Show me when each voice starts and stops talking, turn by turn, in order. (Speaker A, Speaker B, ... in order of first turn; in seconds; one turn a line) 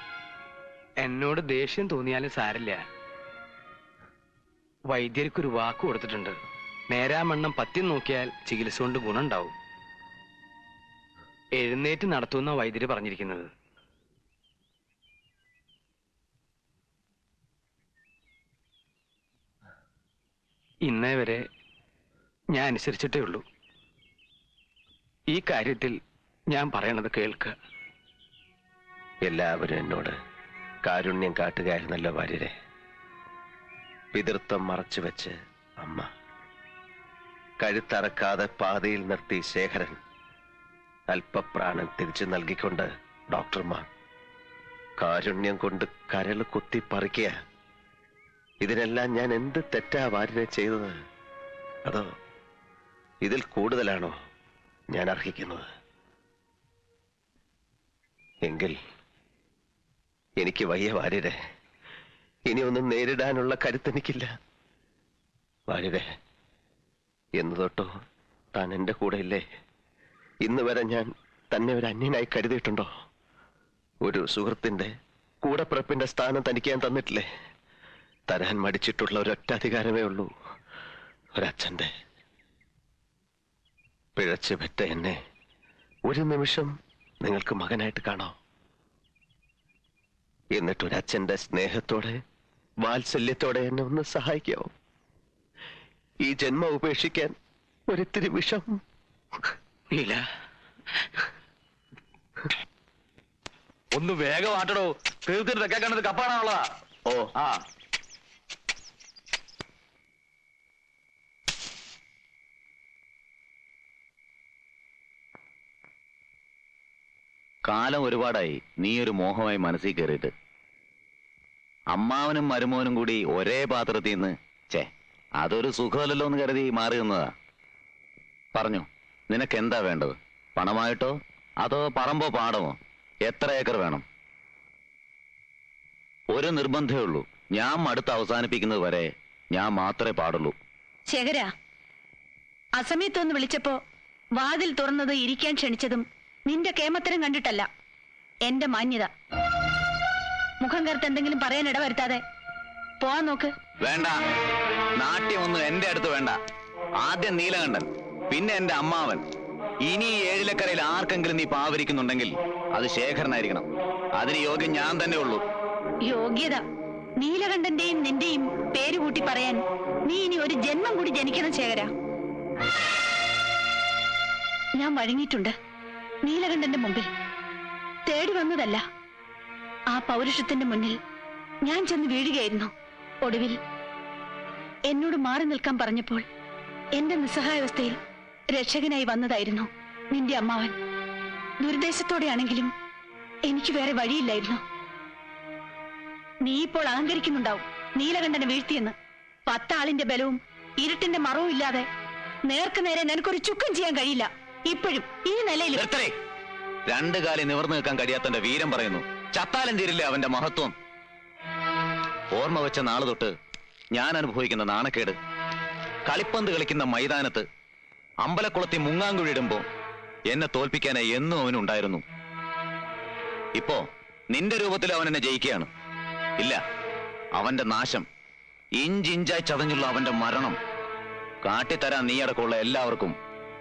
Speaker A: 1.0-2.8
Speaker A: 4.9-6.4
Speaker A: 6.9-9.5
Speaker A: 11.6-13.5
Speaker A: 20.9-21.4
Speaker A: 22.5-23.4
Speaker A: 25.3-26.0
Speaker A: 26.5-27.5
Speaker B: 29.2-30.1
Speaker B: 30.9-32.5
Speaker B: 34.1-36.1
Speaker B: 37.6-40.0
Speaker B: 41.1-43.9
Speaker B: 45.0-47.3
Speaker B: 48.6-50.9
Speaker B: 53.2-54.1
Speaker B: 54.9-55.7
Speaker B: 58.4-58.8
Speaker B: 60.4-61.4
Speaker B: 62.5-64.3
Speaker B: 65.7-66.0
Speaker B: 67.4-67.9
Speaker B: 68.5-69.4
Speaker B: 70.4-72.9
Speaker B: 74.0-74.9
Speaker B: 75.4-77.2
Speaker B: 78.3-80.3
Speaker B: 81.4-81.9
Speaker B: 84.2-85.2
Speaker B: 86.1-86.7
Speaker B: 87.2-88.3
Speaker B: 90.5-92.2
Speaker B: 92.8-94.7
Speaker B: 96.2-97.3
Speaker B: 97.9-98.8
Speaker A: 99.9-100.2
Speaker C: 104.0-106.5
Speaker D: 117.7-120.3
Speaker D: 121.9-127.3
Speaker D: 128.5-134.0
Speaker D: 136.3-140.5
Speaker E: 141.1-141.5
Speaker E: 142.8-143.8
Speaker E: 144.4-147.7
Speaker E: 148.4-149.1
Speaker E: 150.6-152.2
Speaker E: 153.0-153.5
Speaker D: 153.8-154.1
Speaker D: 155.0-156.3
Speaker D: 157.0-159.2
Speaker D: 159.8-163.7
Speaker D: 164.2-165.4
Speaker E: 166.0-166.6
Speaker E: 167.2-171.9
Speaker E: 174.8-175.5
Speaker E: 176.2-177.1
Speaker E: 178.1-178.8
Speaker E: 179.9-180.9
Speaker E: 181.6-182.7
Speaker E: 183.2-183.6
Speaker E: 184.9-186.2
Speaker E: 187.0-187.9
Speaker E: 188.5-190.7
Speaker E: 191.6-192.7
Speaker E: 193.5-194.6
Speaker E: 196.4-198.9
Speaker E: 199.5-201.8
Speaker E: 202.5-205.8
Speaker D: 205.7-206.1
Speaker D: 206.9-210.7
Speaker D: 212.3-213.3
Speaker D: 213.9-215.2
Speaker D: 216.1-217.4
Speaker D: 218.2-219.6
Speaker D: 220.3-222.0
Speaker D: 223.6-225.7
Speaker D: 227.4-228.1
Speaker D: 228.8-230.6
Speaker D: 231.4-233.2